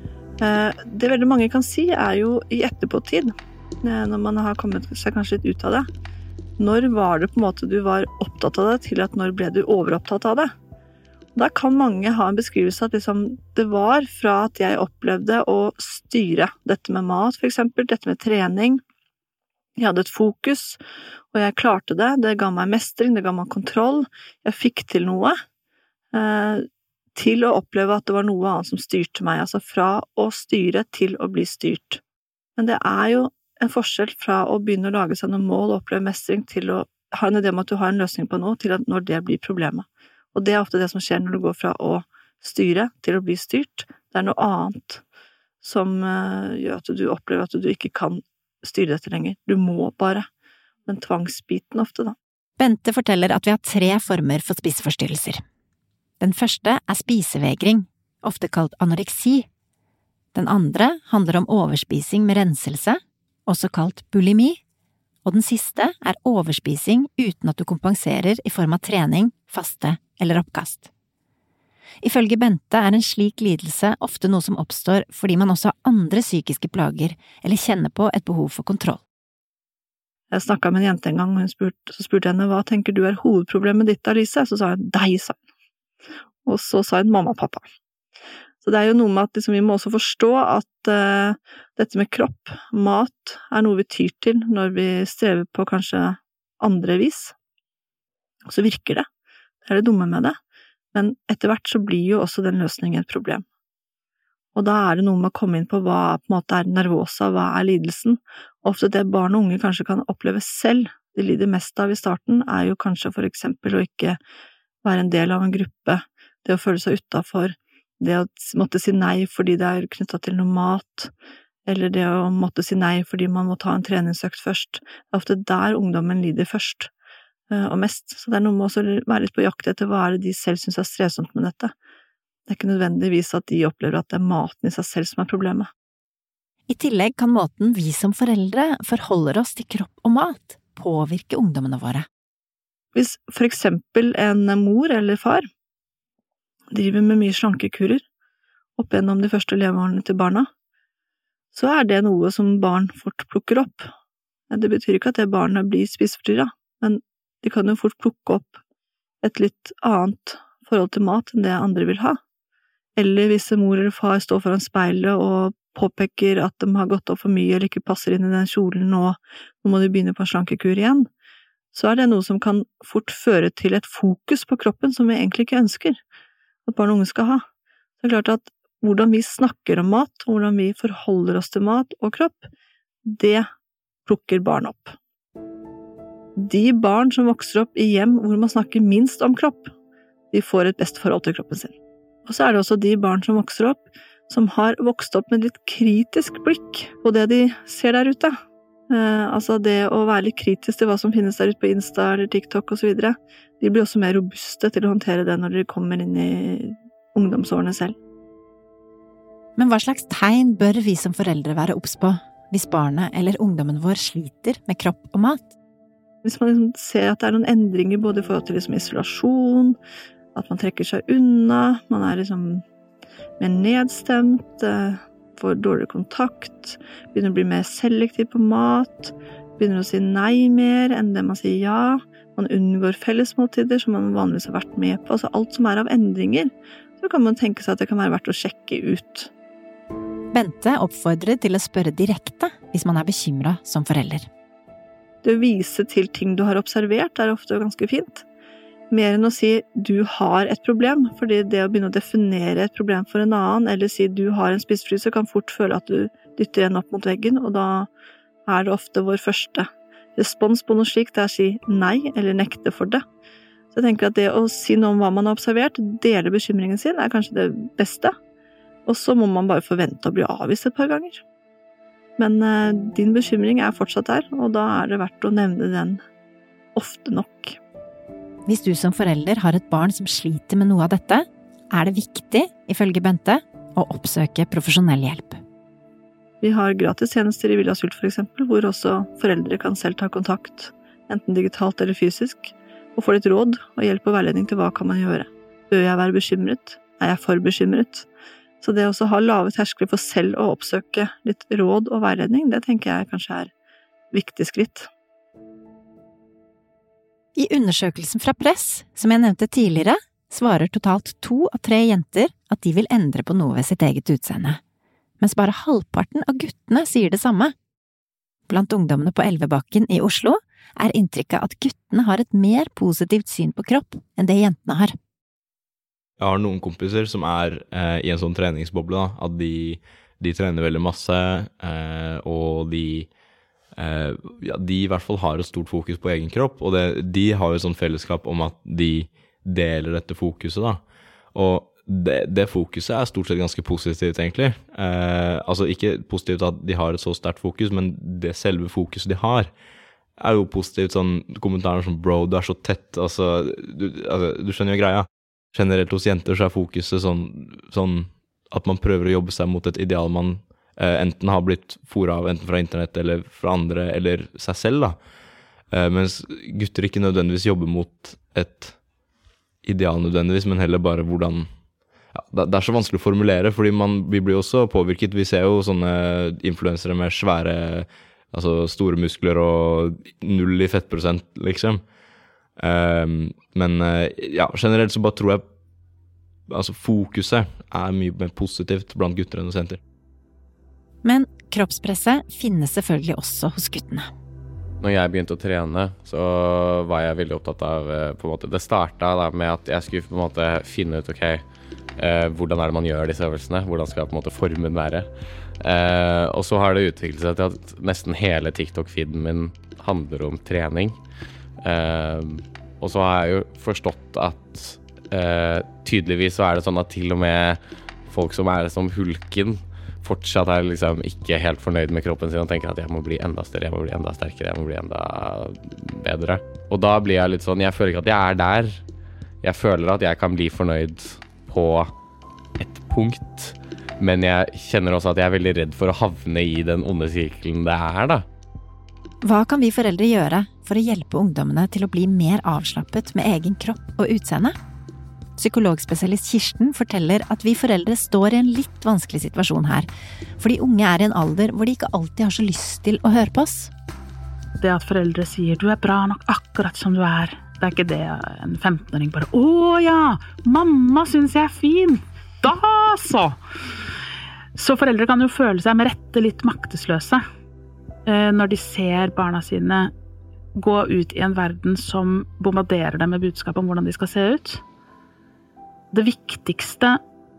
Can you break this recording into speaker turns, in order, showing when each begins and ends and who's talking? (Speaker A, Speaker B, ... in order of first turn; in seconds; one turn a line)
Speaker A: 0.4-5.9
Speaker A: 6.6-10.5
Speaker A: 11.4-18.8
Speaker A: 19.8-20.8
Speaker A: 21.3-25.4
Speaker A: 26.1-26.6
Speaker A: 27.1-32.0
Speaker A: 32.6-45.0
Speaker A: 45.6-50.3
Speaker A: 50.9-52.2
Speaker B: 52.6-55.4
Speaker B: 56.2-59.5
Speaker B: 60.3-64.6
Speaker B: 65.2-70.9
Speaker B: 72.0-79.0
Speaker A: 80.3-85.4
Speaker A: 86.5-87.6
Speaker A: 88.6-97.3
Speaker A: 98.5-99.0
Speaker A: 99.7-100.4
Speaker A: 100.9-103.4
Speaker A: 104.6-114.2
Speaker A: 114.8-121.1
Speaker A: 121.7-126.9
Speaker A: 127.5-131.7
Speaker A: 132.5-135.7
Speaker B: 136.7-142.1
Speaker A: 142.9-145.5
Speaker A: 146.7-148.0
Speaker A: 148.8-150.5
Speaker A: 151.5-153.9
Speaker A: 154.5-158.6
Speaker A: 159.2-162.2
Speaker A: 163.0-171.1
Speaker A: 171.7-176.0
Speaker A: 176.7-177.4
Speaker A: 178.0-182.4
Speaker A: 183.1-183.5
Speaker A: 184.1-184.9
Speaker A: 186.4-189.7
Speaker A: 190.3-191.8
Speaker A: 192.3-198.4
Speaker A: 198.9-208.0
Speaker B: 209.6-215.6
Speaker A: 216.2-219.8
Speaker A: 220.3-222.6
Speaker A: 223.4-239.3
Speaker B: 240.3-244.3
Speaker A: 245.2-248.2
Speaker A: 248.9-257.9
Speaker A: 258.5-263.0
Speaker A: 263.7-268.1
Speaker A: 268.9-271.2
Speaker A: 272.2-276.0
Speaker A: 276.8-277.6
Speaker B: 278.5-285.4
Speaker A: 286.4-298.1
Speaker A: 298.6-303.5
Speaker A: 304.1-304.9
Speaker B: 307.4-314.6
Speaker B: 315.2-317.5
Speaker B: 318.5-324.9
Speaker C: 326.2-333.1
Speaker C: 333.8-349.6
Speaker C: 350.2-365.0
Speaker C: 365.7-368.8
Speaker C: 369.6-371.6
Speaker C: 372.1-381.9
Speaker C: 382.6-385.5
Speaker C: 386.5-389.8
Speaker B: 391.0-394.1
Speaker D: 394.8-401.4
Speaker D: 402.0-411.0
Speaker D: 411.6-428.8
Speaker D: 429.4-431.9
Speaker D: 432.6-438.2
Speaker B: 439.2-444.6
Speaker B: 445.4-453.7
Speaker E: 454.6-463.4
Speaker E: 464.6-467.2
Speaker E: 468.1-469.9
Speaker E: 470.6-474.6
Speaker E: 475.9-477.0